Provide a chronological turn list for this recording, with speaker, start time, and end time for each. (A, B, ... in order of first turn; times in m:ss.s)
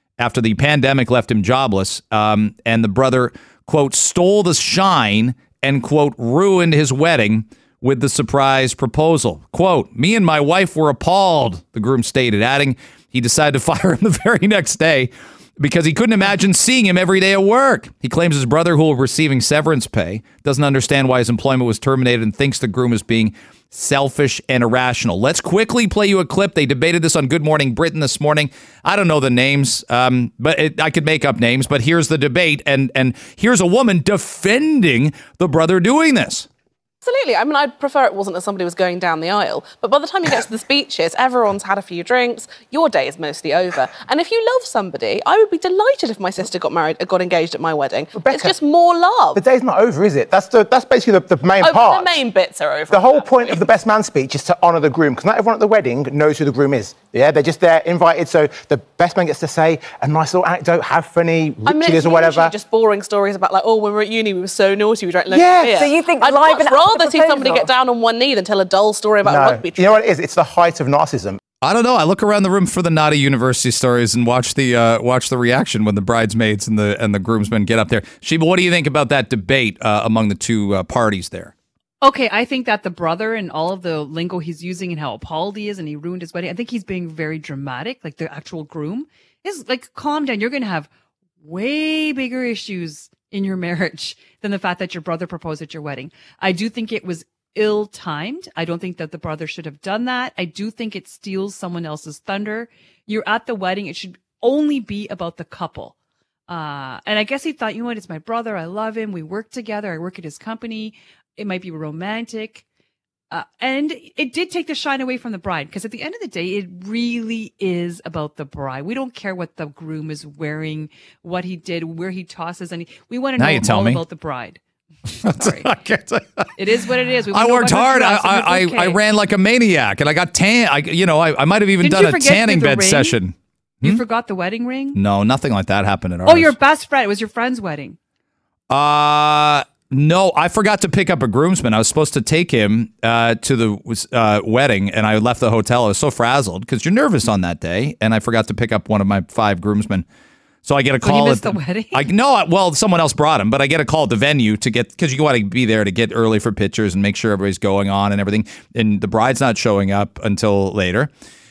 0:00.2-0:36.5 A
0:37.0-0:49.4 B
0:48.1-0:48.6 C
0:49.3-0:52.1 C
0:51.6-0:53.6 B
0:52.9-1:02.5 C
1:01.6-1:10.0 B
1:05.3-1:07.6 C
1:09.2-1:11.4 C
1:11.6-1:21.5 A
1:22.0-1:30.9 D
1:31.4-1:45.9 D
1:46.5-1:52.6 D
1:53.3-2:04.6 D
2:03.4-2:04.0 A
2:05.2-2:06.5 A
2:05.3-2:05.7 D
2:06.6-2:09.0 D
2:07.3-2:14.0 A
2:11.8-2:13.2 D
2:13.8-2:15.0 D
2:14.9-2:16.5 A
2:16.2-2:18.0 D
2:18.7-2:30.0 A
2:30.6-2:41.1 A
2:31.0-2:32.0 D